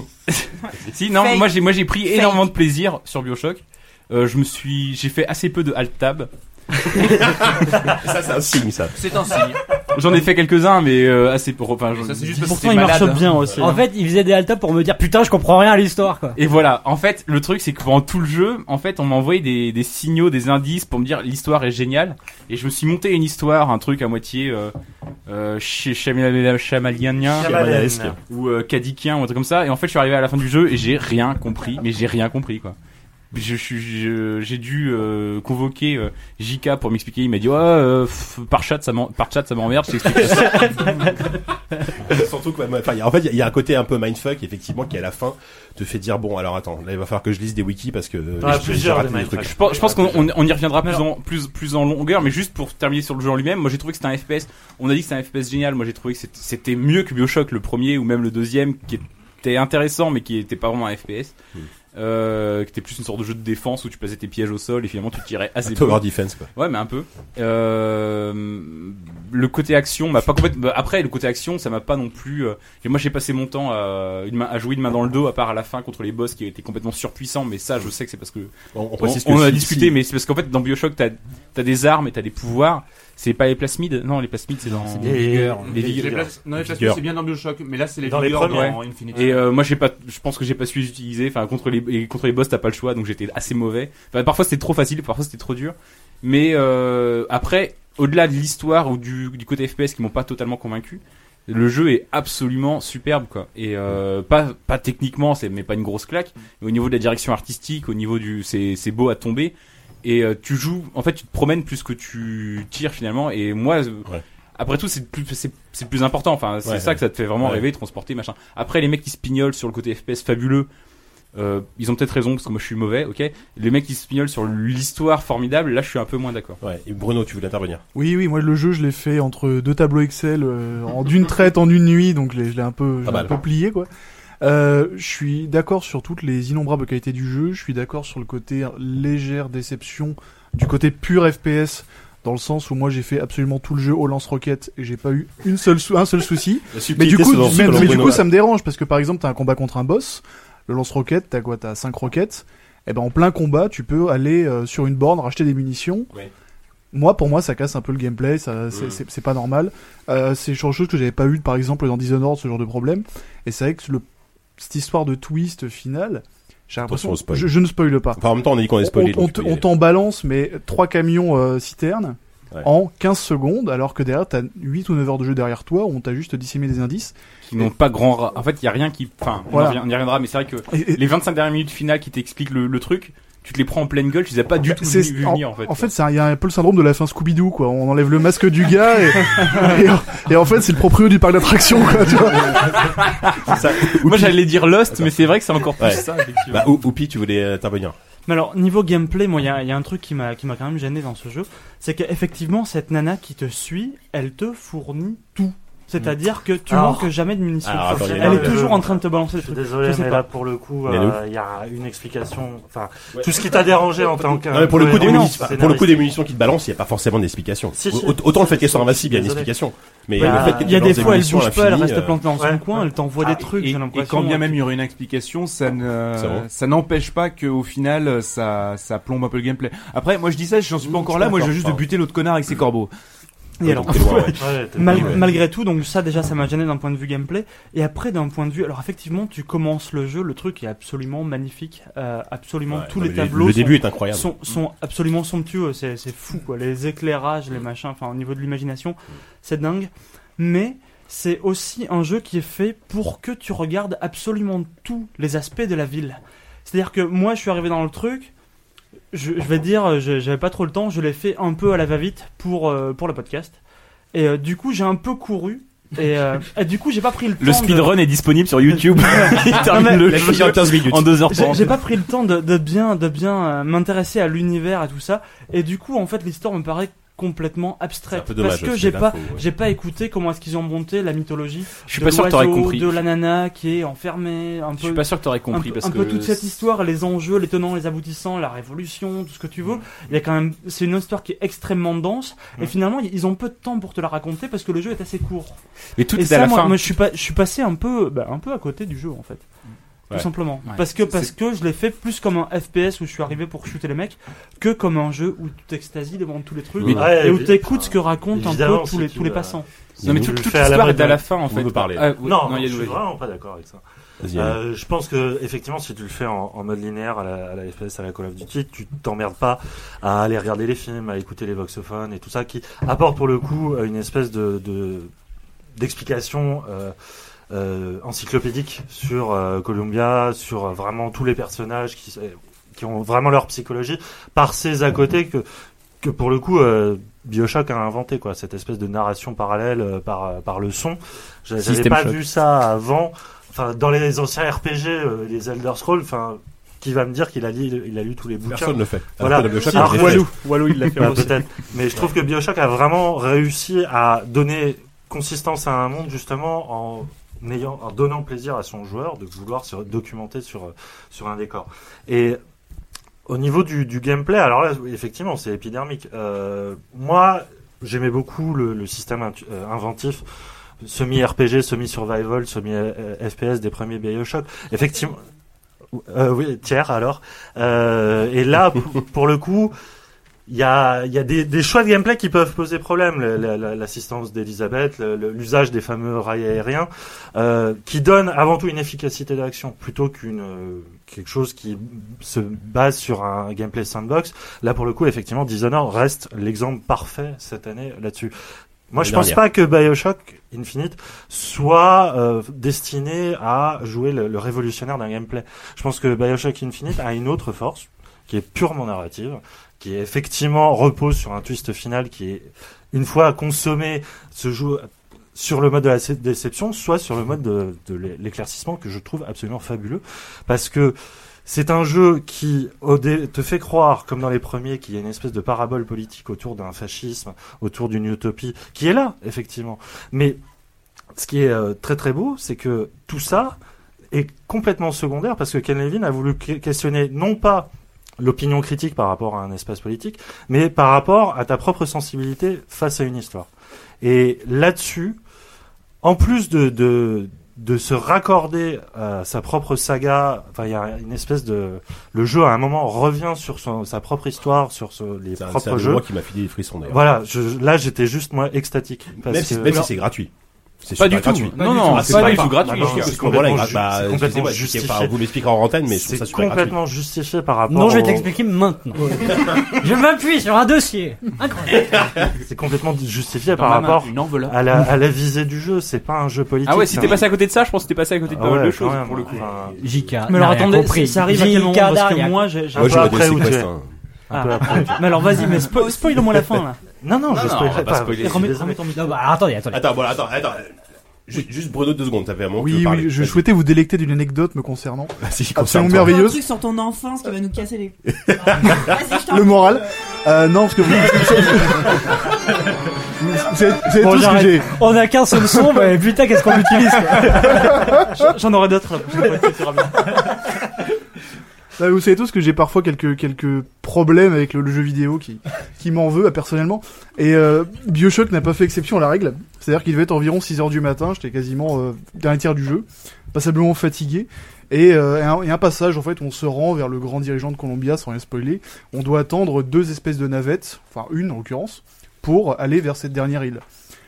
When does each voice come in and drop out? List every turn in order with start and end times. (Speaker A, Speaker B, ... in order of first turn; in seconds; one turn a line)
Speaker A: 0.3-6.3
Speaker B: 1.1-2.4
Speaker C: 7.0-8.9
Speaker D: 8.9-9.6
Speaker A: 9.9-13.2
Speaker D: 11.9-13.7
Speaker E: 12.4-13.8
Speaker F: 13.6-16.4
Speaker A: 16.4-24.7
Speaker A: 25.3-27.6
Speaker G: 27.3-28.2
Speaker C: 27.3-28.1
Speaker A: 28.3-32.8
Speaker A: 33.3-41.2
Speaker C: 42.0-50.2
Speaker G: 48.4-50.1
Speaker A: 49.5-61.3
Speaker A: 61.9-86.2
Speaker C: 65.7-66.5
Speaker C: 78.7-79.9
Speaker F: 84.7-85.8
Speaker G: 85.0-86.3
Speaker D: 85.7-89.4
Speaker C: 86.6-87.0
Speaker G: 88.0-88.8
Speaker A: 88.5-120.7
Speaker C: 116.6-117.6
Speaker A: 121.3-126.6
Speaker C: 126.6-127.8
Speaker H: 127.9-133.9
Speaker C: 133.0-133.3
Speaker H: 134.4-156.1
Speaker C: 146.7-148.3
Speaker H: 156.9-164.0
Speaker C: 158.7-159.0
Speaker H: 164.6-168.2
Speaker C: 166.8-167.6
Speaker C: 168.1-169.7
Speaker H: 168.8-177.1
Speaker A: 177.4-185.9
Speaker H: 179.5-179.8
Speaker H: 180.7-181.0
Speaker H: 184.6-193.0
Speaker A: 192.9-196.7
Speaker C: 193.5-195.1
Speaker C: 195.8-197.9
Speaker E: 198.3-210.3
Speaker G: 206.7-207.1
Speaker C: 207.6-208.8
Speaker G: 207.8-216.1
Speaker C: 210.9-211.2
Speaker C: 214.4-222.2
Speaker E: 214.8-215.4
Speaker G: 217.7-219.5
Speaker G: 220.2-221.2
Speaker E: 220.2-224.6
Speaker G: 222.3-223.4
Speaker D: 223.6-232.9
Speaker C: 226.2-226.4
Speaker C: 231.2-231.8
Speaker E: 233.6-258.3
Speaker C: 233.6-235.2
Speaker G: 234.3-235.3
Speaker C: 242.7-244.3
Speaker E: 259.1-263.6
Speaker E: 264.1-268.0
Speaker A: 267.4-271.8
Speaker E: 269.0-270.3
Speaker C: 269.6-271.2
Speaker E: 271.3-295.6
Speaker C: 278.1-279.4
Speaker A: 281.9-282.9
Speaker A: 284.8-286.4
Speaker A: 295.9-296.8
Speaker E: 296.1-299.4
Speaker E: 300.1-309.6
Speaker A: 300.7-301.3
Speaker C: 306.8-307.1
Speaker G: 306.8-311.2
Speaker C: 310.0-310.3
Speaker A: 310.0-313.0
Speaker C: 311.5-312.1
Speaker G: 312.2-313.8
Speaker C: 314.2-314.6
Speaker G: 314.3-325.1
Speaker G: 325.8-326.9
Speaker G: 327.5-335.4
Speaker G: 336.0-362.4
Speaker A: 341.6-342.2
Speaker C: 348.5-350.3
Speaker D: 349.7-351.2
Speaker E: 349.8-350.1
Speaker G: 363.3-370.2
Speaker G: 370.8-375.2
Speaker G: 375.9-379.7
Speaker G: 380.5-398.3
Speaker G: 398.9-430.4
Speaker C: 398.9-399.4
Speaker G: 431.1-433.6
Speaker G: 434.1-443.5
Speaker G: 444.0-445.2
Speaker G: 446.0-456.1
Speaker C: 455.4-457.0
Speaker G: 456.9-459.9
Speaker C: 459.2-460.3
Speaker C: 460.8-466.8
Speaker A: 461.0-463.5
Speaker G: 462.0-465.2
Speaker G: 465.9-468.3
Speaker F: 467.7-471.9
Speaker G: 472.4-477.3
Speaker A: 473.5-474.6
Speaker A: 476.6-479.6
Speaker G: 478.3-479.8
Speaker F: 479.8-482.4
Speaker E: 480.3-483.5
Speaker G: 482.7-483.7
Speaker C: 482.8-483.9
Speaker G: 484.3-485.3
Speaker E: 484.3-486.8
Speaker G: 487.0-488.8
Speaker A: 487.3-488.5
Speaker E: 488.2-489.2
Speaker F: 488.9-489.9
Speaker C: 489.7-490.8
Speaker C: 491.3-493.4
Speaker H: 492.6-496.4
Speaker C: 495.2-496.2
Speaker B: 496.1-498.0
Speaker C: 498.1-499.0
Speaker B: 498.8-499.7
Speaker H: 499.1-502.2
Speaker H: 503.2-504.8
Speaker E: 503.9-504.6
Speaker F: 504.7-507.8
Speaker H: 506.8-508.2
Speaker E: 507.2-510.3
Speaker H: 511.8-533.6